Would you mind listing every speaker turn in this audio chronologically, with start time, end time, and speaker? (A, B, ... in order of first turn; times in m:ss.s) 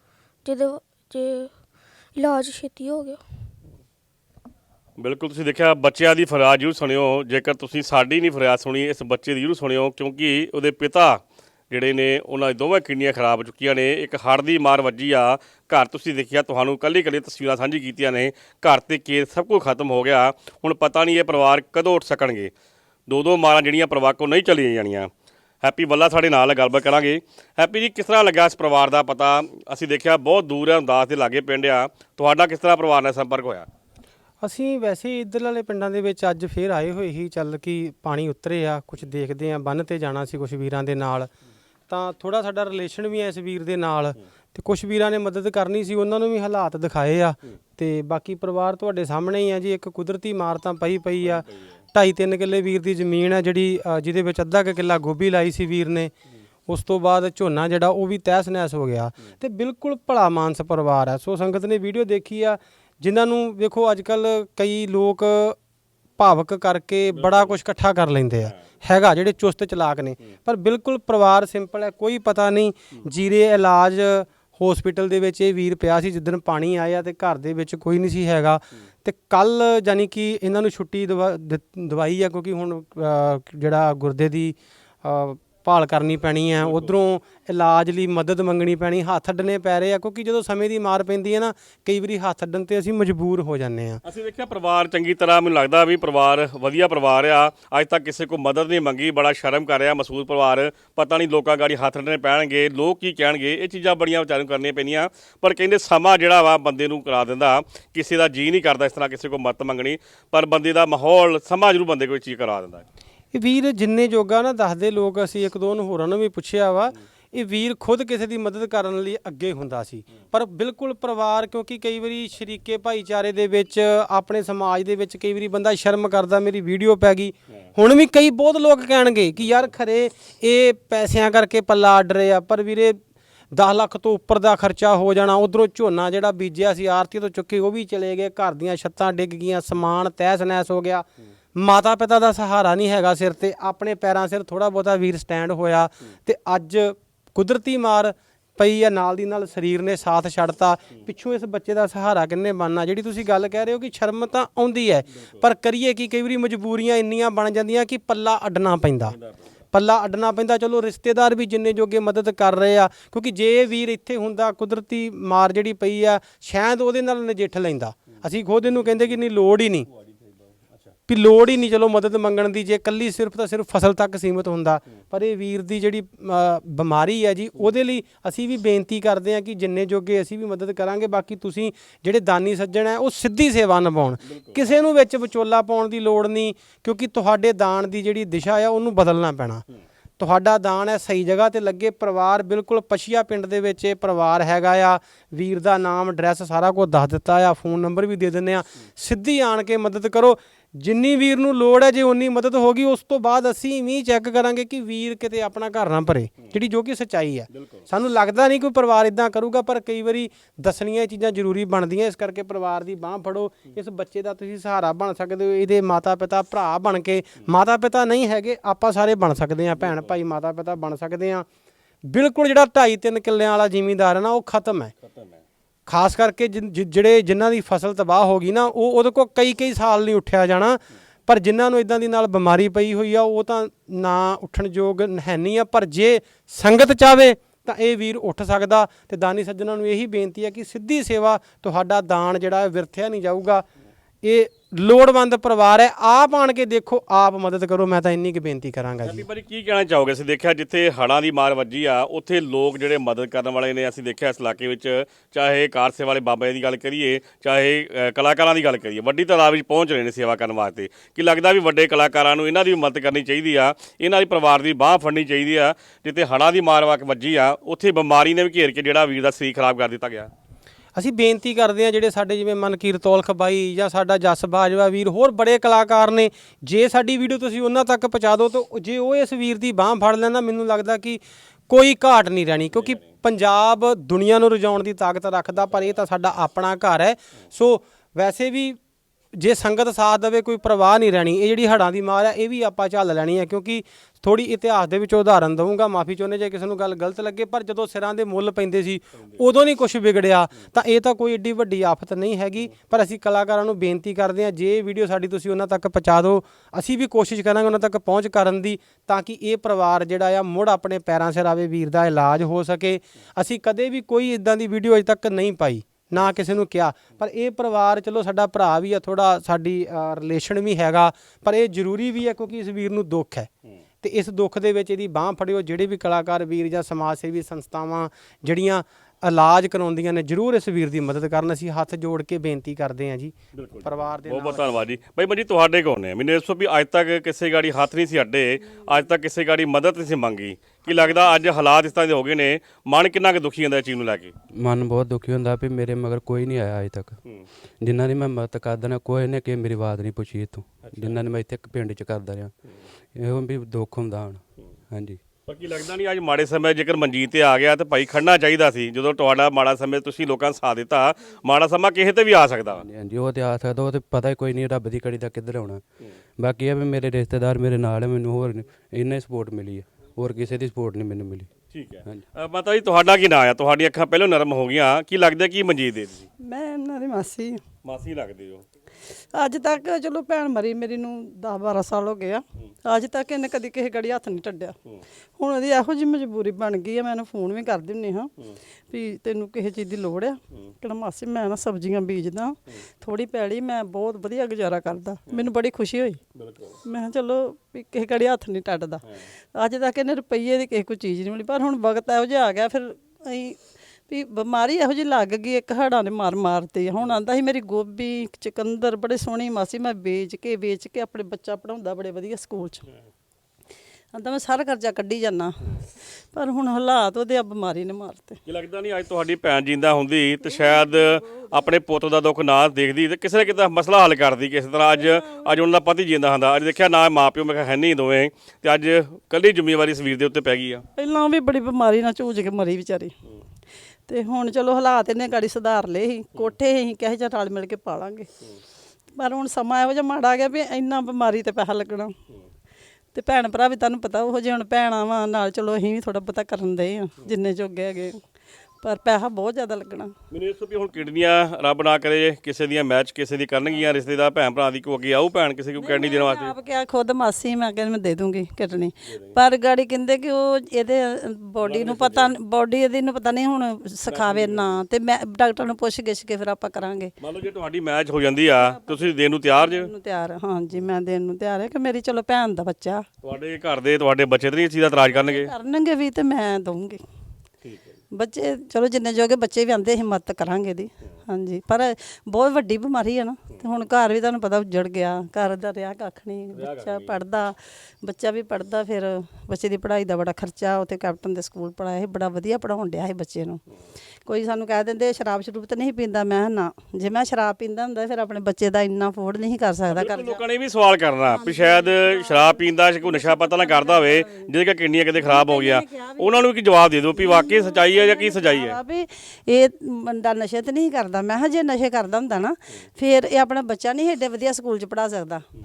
0:00.4-0:01.6 A
0:02.1-0:03.2 A
0:05.0-0:22.5 B
0:23.1-0:25.1 B
0:25.6-0:33.7 B
0:34.4-0:41.3 C
0:41.9-0:56.1 C
0:51.2-0:51.7 B
0:56.7-1:05.6 C
1:06.2-1:34.0 C
1:07.1-1:07.6 B
1:26.6-1:26.9 B
1:34.0-1:52.8 B
1:53.3-2:13.0 C
2:13.5-2:39.2 C
2:39.7-2:49.9 C
2:48.6-2:49.2 B
2:49.9-2:50.9 B
2:51.1-3:09.6 C
3:04.2-3:04.6 B
3:10.2-3:41.4 C
3:27.5-3:27.8 B
3:39.8-3:40.2 B
3:42.1-3:44.9 C
3:45.0-3:45.4 B
3:45.9-4:03.6 C
4:04.2-4:09.2 C
4:09.0-4:30.3 B
4:30.9-4:48.8 C
4:42.7-4:43.0 B
4:49.4-5:23.5 C
5:24.0-5:34.6 C
5:33.5-5:44.3 B
5:44.6-5:47.2 D
5:47.8-5:52.5 D
5:50.8-5:51.2 B
5:53.1-5:55.2 D
5:55.5-6:02.8 B
6:02.7-6:05.8 D
6:06.4-6:11.5 D
6:11.7-6:16.3 B
6:16.4-6:17.6 E
6:17.8-6:18.6 B
6:19.3-6:24.8 E
6:25.4-6:28.3 E
6:28.9-6:36.2 E
6:36.3-6:36.8 B
6:36.8-6:39.0 E
6:39.5-6:52.8 E
6:54.1-6:55.6 E
6:56.2-6:58.4 E
6:58.4-7:10.8 B
7:11.0-7:13.1 E
7:14.1-7:18.3 E
7:19.1-7:22.1 E
7:23.1-7:28.2 E
7:28.8-7:30.1 E
7:30.3-7:36.5 B
7:35.8-7:47.1 E
7:39.0-7:39.4 B
7:41.6-7:42.3 B
7:44.1-7:44.8 B
7:47.2-7:49.9 B
7:48.5-7:53.0 E
7:53.2-7:55.5 B
7:55.1-7:57.0 E
7:57.6-7:58.0 B
7:58.1-8:13.6 E
8:06.5-8:07.2 B
8:14.2-8:20.4 E
8:19.9-8:28.8 B
8:25.2-8:26.3 E
8:27.2-8:35.4 E